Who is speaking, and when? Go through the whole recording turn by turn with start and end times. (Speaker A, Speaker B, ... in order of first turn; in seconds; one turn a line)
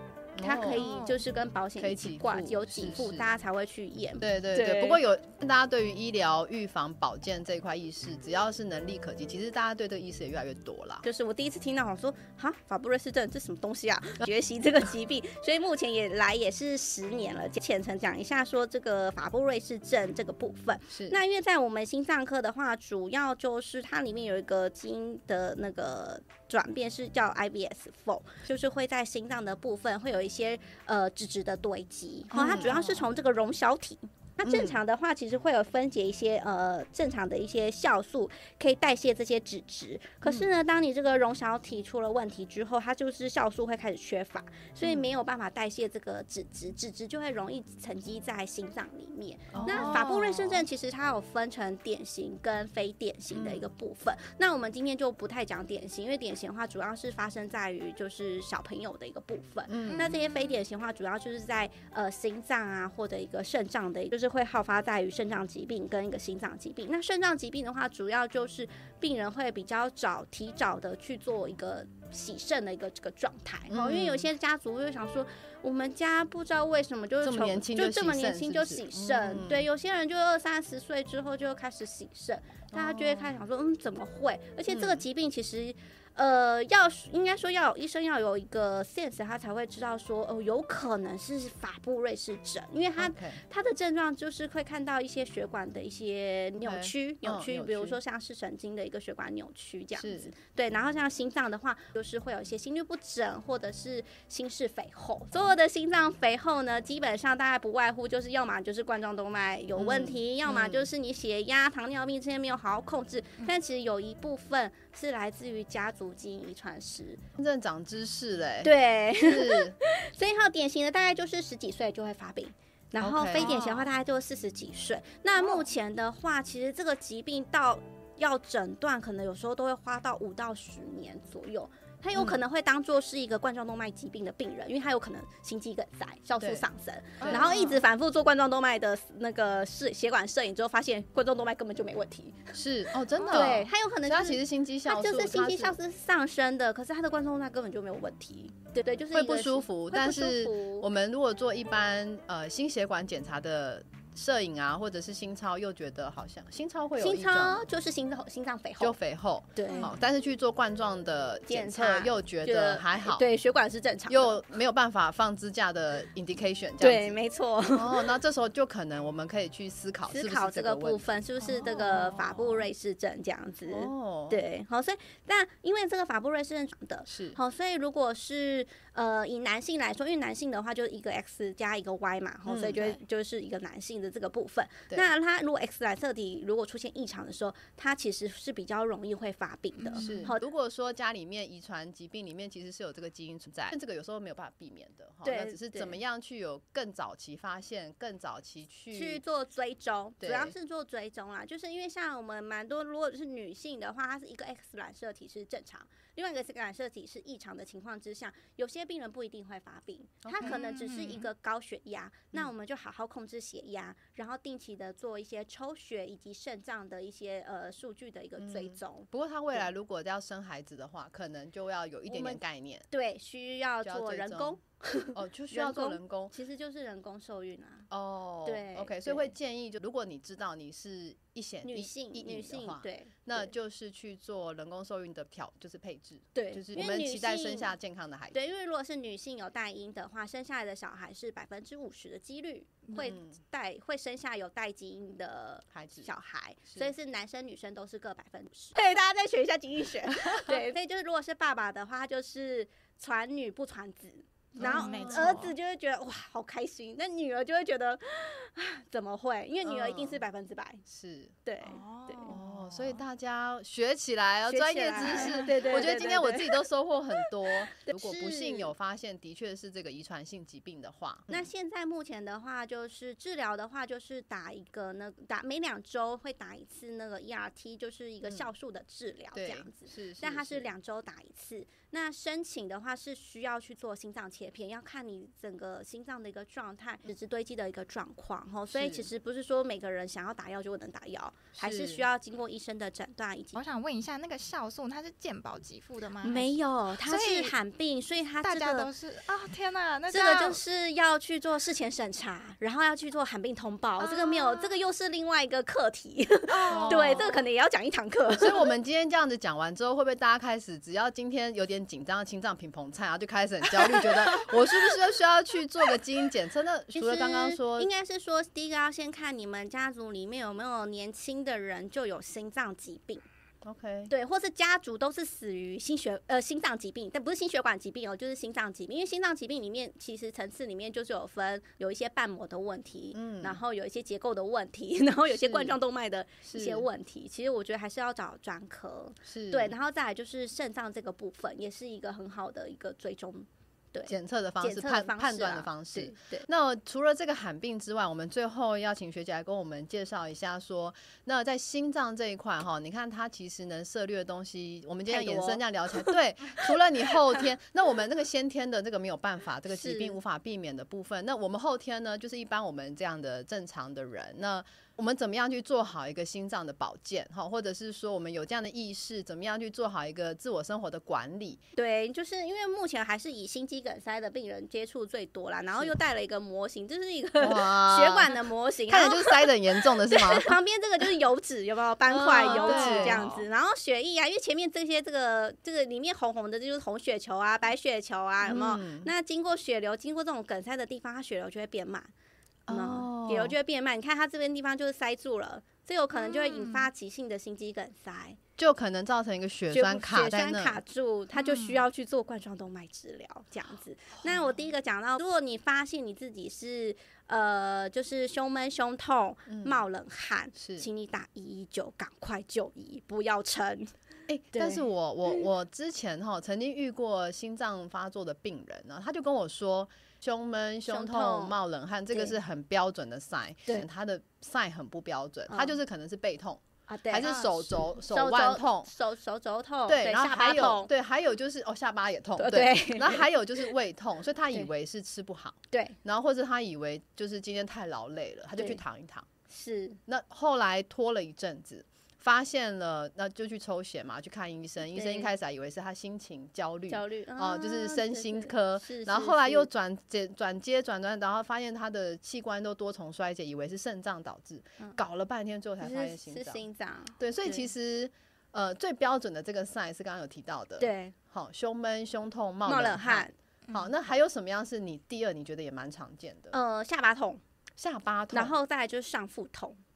Speaker A: 0.3-0.9
Speaker B: 0.4-5.0
Speaker C: 0.7-1.2
Speaker A: 1.8-3.3
Speaker A: 4.2-11.0
Speaker B: 11.0-117.2
Speaker A: 20.9-21.2
Speaker A: 32.3-33.0
Speaker A: 34.4-34.8
Speaker A: 40.2-40.5
Speaker A: 44.8-45.1
Speaker A: 49.5-50.0
Speaker C: 49.5-50.7
Speaker A: 53.3-53.7
Speaker A: 59.7-60.1
Speaker C: 59.9-60.2
Speaker A: 73.7-74.3
Speaker A: 77.2-79.7
Speaker A: 82.7-83.3
Speaker A: 84.7-85.0
Speaker A: 93.0-93.4
Speaker A: 96.6-98.0
Speaker A: 100.0-100.3
Speaker A: 109.8-110.9
Speaker A: 117.4-119.8
Speaker B: 118.6-142.5
Speaker A: 123.0-123.5
Speaker C: 123.3-123.9
Speaker A: 132.1-132.4
Speaker A: 136.4-136.6
Speaker A: 137.2-137.8
Speaker C: 137.2-137.8
Speaker A: 142.5-145.8
Speaker C: 143.1-143.6
Speaker B: 143.3-150.9
Speaker A: 149.1-157.6
Speaker B: 157.0-159.0
Speaker A: 158.8-163.3
Speaker B: 159.6-159.9
Speaker C: 159.7-159.9
Speaker B: 161.5-164.4
Speaker A: 164.1-167.2
Speaker B: 166.8-168.1
Speaker A: 167.7-171.1
Speaker B: 170.1-190.4
Speaker C: 171.4-172.6
Speaker A: 173.7-174.4
Speaker A: 177.1-177.4
Speaker A: 182.4-182.9
Speaker C: 189.8-190.3
Speaker A: 189.9-199.2
Speaker B: 195.2-196.0
Speaker B: 198.9-219.1
Speaker A: 200.2-200.5
Speaker A: 210.2-210.6
Speaker C: 210.4-211.3
Speaker A: 218.4-222.9
Speaker B: 222.1-227.9
Speaker A: 223.8-224.6
Speaker A: 225.1-226.3
Speaker A: 227.9-238.3
Speaker B: 228.4-229.3
Speaker B: 231.6-233.5
Speaker B: 236.3-237.7
Speaker B: 238.3-260.8
Speaker C: 242.9-243.1
Speaker A: 243.0-243.3
Speaker A: 245.7-246.1
Speaker A: 254.6-255.4
Speaker C: 254.6-255.5
Speaker A: 259.6-260.2
Speaker A: 260.9-261.4
Speaker B: 261.4-262.3
Speaker C: 261.6-263.0
Speaker A: 262.3-271.5
Speaker B: 264.5-266.6
Speaker C: 265.1-265.4
Speaker B: 267.8-268.7
Speaker B: 271.3-293.6
Speaker A: 279.3-280.7
Speaker A: 288.7-289.1
Speaker A: 291.6-292.1
Speaker C: 293.5-297.5
Speaker B: 296.2-298.9
Speaker C: 298.4-300.6
Speaker B: 300.1-308.7
Speaker C: 304.0-304.8
Speaker C: 306.5-307.4
Speaker A: 306.7-307.3
Speaker A: 308.4-317.9
Speaker B: 313.8-314.9
Speaker B: 316.9-323.2
Speaker A: 323.6-324.1
Speaker B: 324.1-346.4
Speaker A: 333.1-333.6
Speaker A: 335.3-335.8
Speaker A: 336.4-336.9
Speaker A: 339.3-339.7
Speaker A: 344.1-371.6
Speaker B: 355.1-356.1
Speaker B: 359.7-360.2
Speaker B: 371.8-392.1
Speaker A: 377.4-378.4
Speaker A: 378.9-380.5
Speaker A: 382.1-383.3
Speaker C: 382.2-383.4
Speaker A: 388.4-389.1
Speaker A: 392.7-393.5
Speaker B: 392.7-398.4
Speaker C: 396.1-396.9
Speaker A: 398.6-400.8
Speaker B: 399.7-413.9
Speaker C: 401.3-401.8
Speaker A: 404.2-404.5
Speaker A: 409.5-409.8
Speaker A: 410.6-410.9
Speaker A: 414.3-428.9
Speaker B: 414.5-415.4
Speaker B: 420.9-421.6
Speaker B: 422.1-422.3
Speaker B: 425.5-425.8
Speaker B: 426.9-427.3
Speaker C: 427.2-427.7
Speaker B: 427.9-430.9
Speaker A: 429.9-439.2
Speaker B: 432.4-433.6
Speaker B: 435.7-436.0
Speaker B: 439.5-440.0
Speaker A: 440.1-456.6
Speaker B: 444.9-445.3
Speaker B: 446.9-449.7
Speaker B: 455.8-457.6
Speaker A: 457.2-466.6
Speaker B: 460.8-461.1
Speaker B: 462.6-463.3
Speaker B: 466.5-467.4
Speaker A: 467.8-468.5
Speaker B: 468.3-469.8